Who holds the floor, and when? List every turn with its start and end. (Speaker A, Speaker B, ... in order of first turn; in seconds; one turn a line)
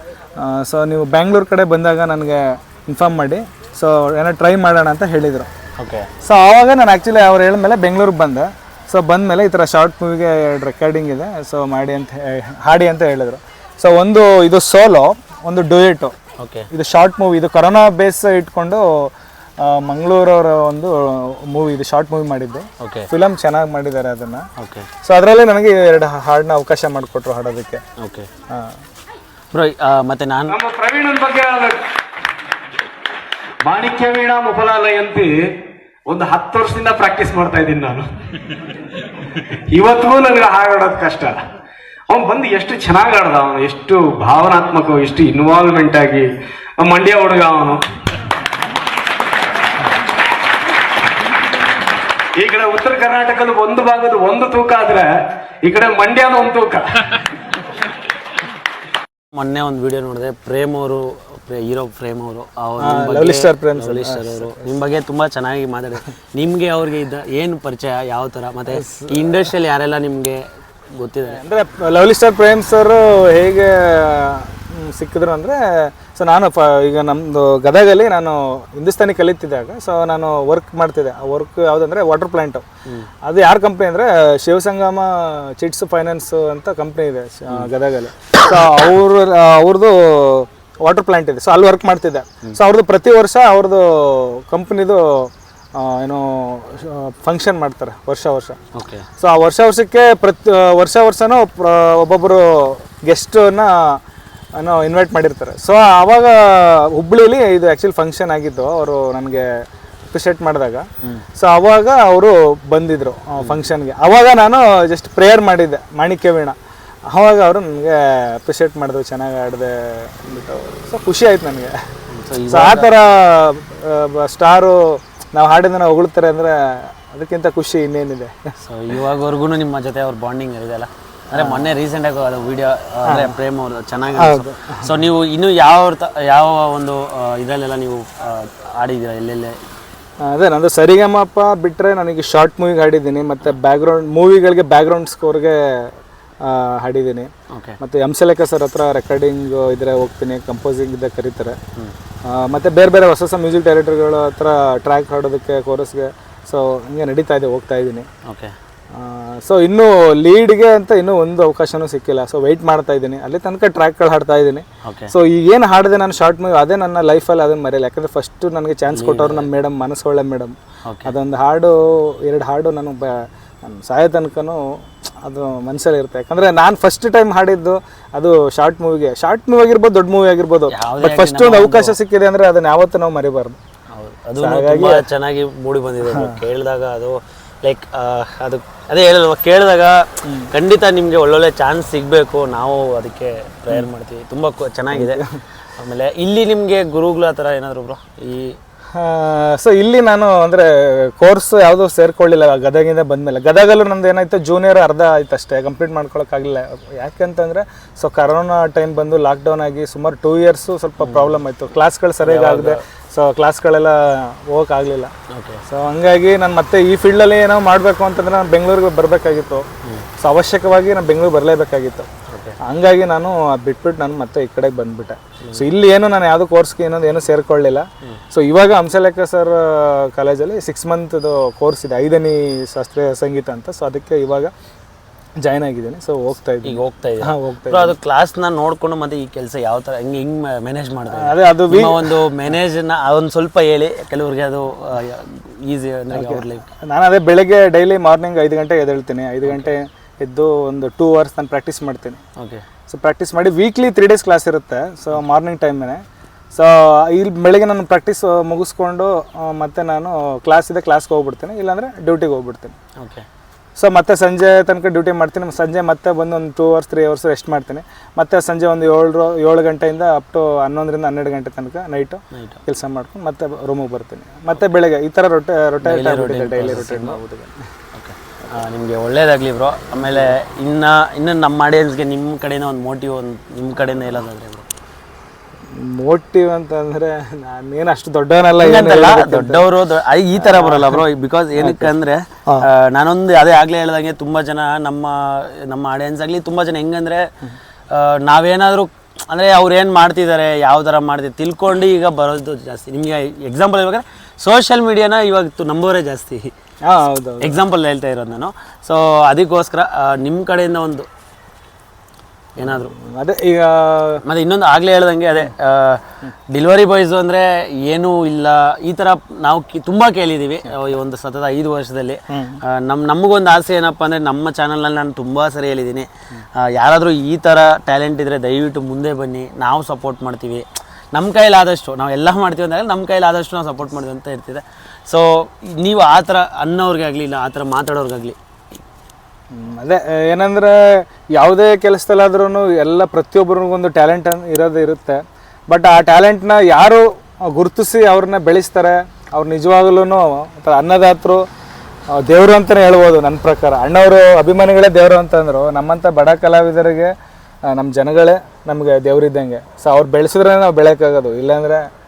Speaker A: 0.4-5.5
Speaker B: 5.8-6.1
Speaker A: 6.2-16.1
Speaker B: 16.4-16.7
Speaker A: 16.7-24.5
Speaker B: 22.8-23.1
Speaker B: 24.6-24.9
Speaker A: 25.0-27.8
Speaker B: 28.0-28.3
Speaker B: 29.5-30.6
Speaker C: 30.5-31.9
Speaker C: 33.6-35.6
Speaker C: 36.1-38.1
Speaker C: 39.7-41.4
Speaker C: 42.1-47.9
Speaker C: 52.4-57.1
Speaker B: 59.3-70.4
Speaker A: 62.8-64.7
Speaker A: 68.7-69.5
Speaker B: 71.0-71.4
Speaker A: 71.3-82.7
Speaker A: 83.2-98.6
Speaker B: 98.8-99.1
Speaker A: 99.2-104.0
Speaker A: 104.6-109.5
Speaker A: 110.1-110.8
Speaker A: 111.4-116.6
Speaker A: 117.1-121.8
Speaker B: 122.1-122.9
Speaker A: 122.5-128.3
Speaker B: 128.6-139.6
Speaker A: 131.3-131.7
Speaker A: 133.1-133.3
Speaker A: 134.1-134.9
Speaker A: 140.2-151.6
Speaker B: 147.5-147.8
Speaker A: 152.3-158.1
Speaker B: 158.3-158.5
Speaker A: 158.9-170.5
Speaker B: 164.8-165.1
Speaker B: 168.9-169.5
Speaker B: 170.9-171.1
Speaker A: 171.1-174.6
Speaker A: 175.2-183.6
Speaker B: 180.7-182.0
Speaker B: 183.9-195.2
Speaker A: 184.4-185.0
Speaker A: 186.1-186.4
Speaker A: 194.9-195.4
Speaker B: 195.8-198.6
Speaker A: 198.9-215.1
Speaker B: 211.0-211.4
Speaker B: 212.2-212.8
Speaker B: 215.3-215.6
Speaker A: 215.7-219.7
Speaker A: 220.2-222.1
Speaker B: 222.3-222.6
Speaker A: 222.6-234.5
Speaker B: 225.4-225.7
Speaker A: 235.4-237.9
Speaker B: 236.6-246.7
Speaker A: 241.1-242.1
Speaker A: 246.1-252.2
Speaker B: 252.4-252.7
Speaker A: 252.9-256.0
Speaker A: 256.5-262.8
Speaker B: 263.0-263.3
Speaker A: 263.8-277.6
Speaker B: 272.3-272.6
Speaker B: 275.8-277.2
Speaker B: 277.9-284.7
Speaker A: 280.0-280.3
Speaker A: 285.7-289.6
Speaker B: 288.6-297.3
Speaker A: 290.4-291.0
Speaker A: 291.6-291.9
Speaker B: 297.9-306.5
Speaker A: 306.9-307.6
Speaker B: 307.4-311.1
Speaker B: 312.6-312.9
Speaker A: 312.6-314.2
Speaker B: 314.2-338.4
Speaker A: 322.3-322.6
Speaker A: 339.5-351.4
Speaker A: 352.2-357.1
Speaker A: 357.7-361.9